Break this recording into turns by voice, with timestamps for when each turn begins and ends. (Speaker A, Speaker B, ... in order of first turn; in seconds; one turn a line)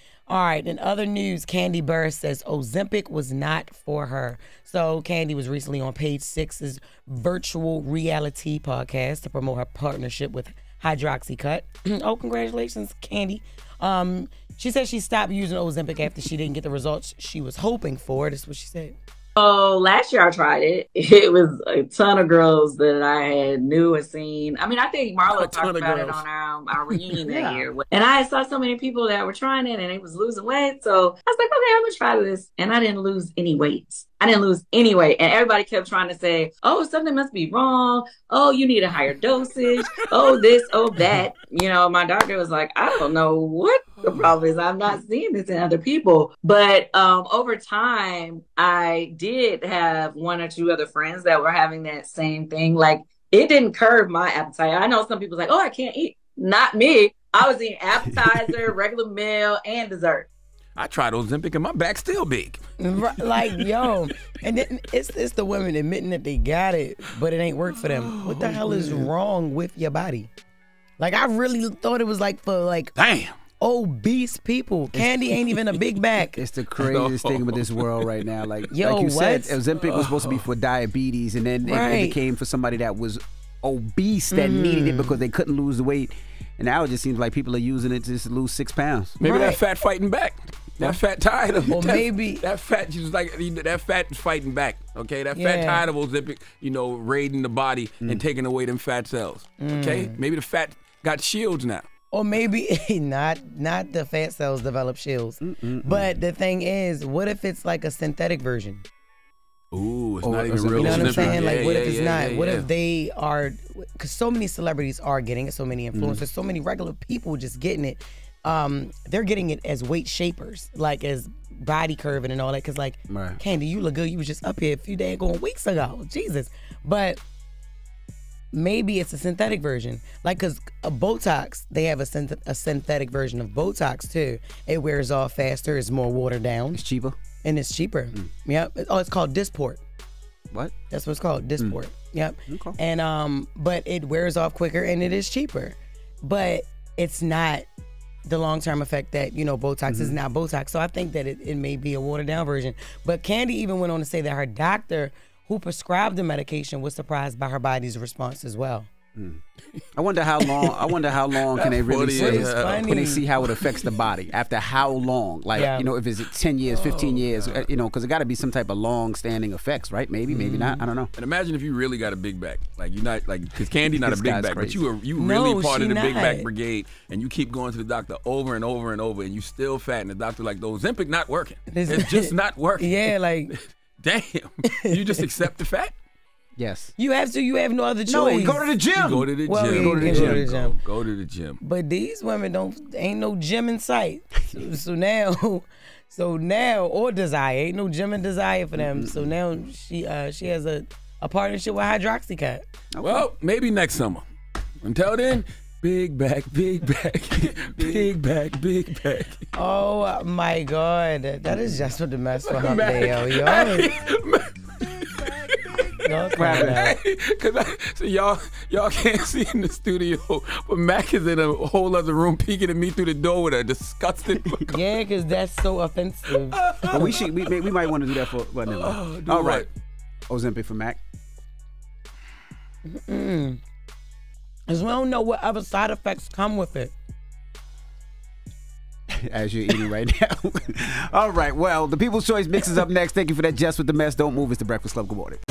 Speaker A: 0.3-19.0
Speaker B: 19.4-60.3
Speaker C: 25.4-26.2
Speaker D: 27.2-27.7
Speaker C: 44.0-44.3
Speaker C: 60.8-62.6
Speaker A: 62.8-70.3
Speaker C: 63.5-63.8
Speaker C: 67.7-69.0
Speaker A: 71.0-72.9
Speaker C: 73.0-73.3
Speaker A: 73.6-76.4
Speaker D: 76.4-89.2
Speaker C: 76.8-78.2
Speaker A: 78.7-79.6
Speaker C: 79.8-80.5
Speaker A: 81.7-82.2
Speaker A: 84.3-85.2
Speaker C: 89.2-101.9
Speaker A: 89.2-89.6
Speaker A: 91.7-92.5
Speaker A: 95.3-95.9
Speaker A: 99.6-100.2
Speaker A: 102.1-108.8
Speaker D: 105.4-106.1
Speaker C: 109.7-112.7
Speaker D: 110.2-111.7
Speaker A: 110.8-127.2
Speaker D: 115.9-116.2
Speaker D: 123.1-123.4
Speaker A: 128.5-136.8
Speaker D: 136.7-137.2
Speaker A: 137.4-139.8
Speaker A: 140.9-147.7
Speaker D: 142.5-142.8
Speaker A: 148.3-158.9
Speaker D: 149.9-150.2
Speaker D: 159.2-159.4
Speaker D: 160.0-171.1
Speaker C: 161.6-163.1
Speaker A: 162.1-163.3
Speaker A: 165.5-165.9
Speaker C: 166.7-167.7
Speaker A: 170.3-170.8
Speaker C: 171.2-186.0
Speaker D: 174.0-174.9
Speaker A: 175.2-176.5
Speaker A: 181.7-183.5
Speaker A: 184.8-185.2
Speaker D: 186.6-186.9
Speaker A: 187.0-188.7
Speaker D: 188.1-190.4
Speaker C: 188.9-191.6
Speaker A: 189.5-190.8
Speaker A: 191.6-202.7
Speaker D: 198.8-199.4
Speaker D: 202.9-203.3
Speaker C: 203.0-204.2
Speaker C: 204.8-209.5
Speaker D: 207.4-208.1
Speaker A: 209.6-213.9
Speaker D: 211.5-211.8
Speaker C: 212.4-224.8
Speaker A: 216.1-217.0
Speaker D: 216.4-216.8
Speaker A: 224.7-226.6
Speaker C: 226.3-228.0
Speaker D: 226.9-229.7
Speaker C: 228.7-229.7
Speaker D: 230.3-231.0
Speaker A: 232.9-233.6
Speaker A: 234.7-236.9
Speaker D: 239.1-245.4